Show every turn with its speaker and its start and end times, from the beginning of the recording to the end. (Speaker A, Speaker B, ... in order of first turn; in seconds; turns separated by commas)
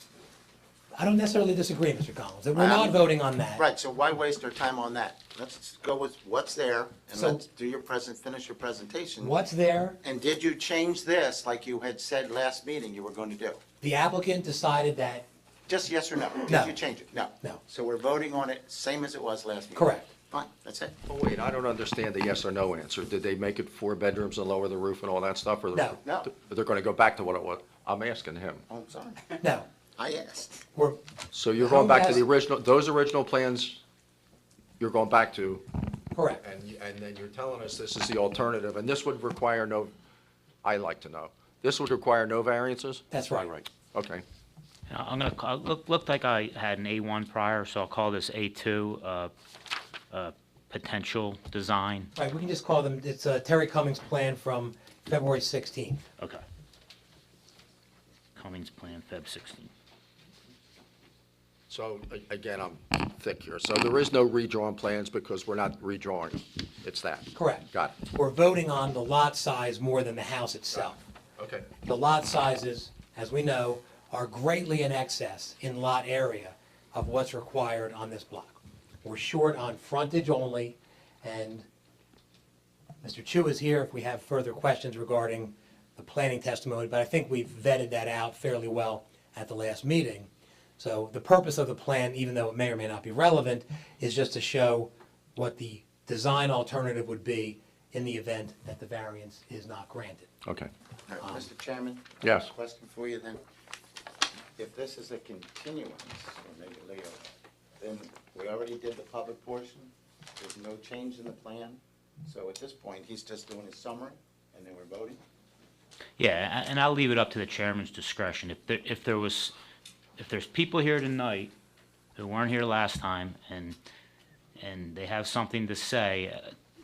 Speaker A: 0.9-3.6, Speaker B: 2.5-3.0, Speaker B: 3.6-9.4, Speaker A: 7.1-7.4, Speaker A: 9.2-10.0, Speaker B: 10.0-13.6, Speaker A: 13.8-15.2, Speaker B: 15.7-20.9, Speaker A: 16.5-16.8, Speaker A: 19.8-20.1, Speaker C: 21.1-28.6, Speaker A: 25.7-26.0, Speaker B: 26.1-26.3, Speaker B: 28.7-29.4, Speaker A: 29.4-29.7, Speaker B: 30.0-30.7, Speaker C: 31.3-33.8, Speaker A: 31.6-32.2, Speaker C: 34.8-35.7, Speaker A: 36.1-36.4, Speaker C: 36.4-39.9, Speaker C: 40.6-43.1, Speaker A: 43.1-43.6, Speaker C: 43.8-44.2, Speaker D: 44.9-49.3, Speaker D: 50.1-52.1, Speaker A: 52.2-56.0, Speaker D: 56.2-56.4, Speaker D: 58.4-59.7, Speaker C: 61.7-68.0, Speaker A: 67.3-71.0, Speaker C: 70.7-71.7, Speaker A: 71.8-81.7, Speaker A: 83.0-100.3, Speaker C: 100.5-100.7, Speaker B: 101.1-103.4, Speaker C: 102.2-102.5, Speaker B: 104.6-107.3, Speaker B: 107.8-115.2, Speaker D: 116.2-119.5, Speaker D: 120.2-121.5, Speaker D: 122.2-123.8, Speaker D: 124.6-126.5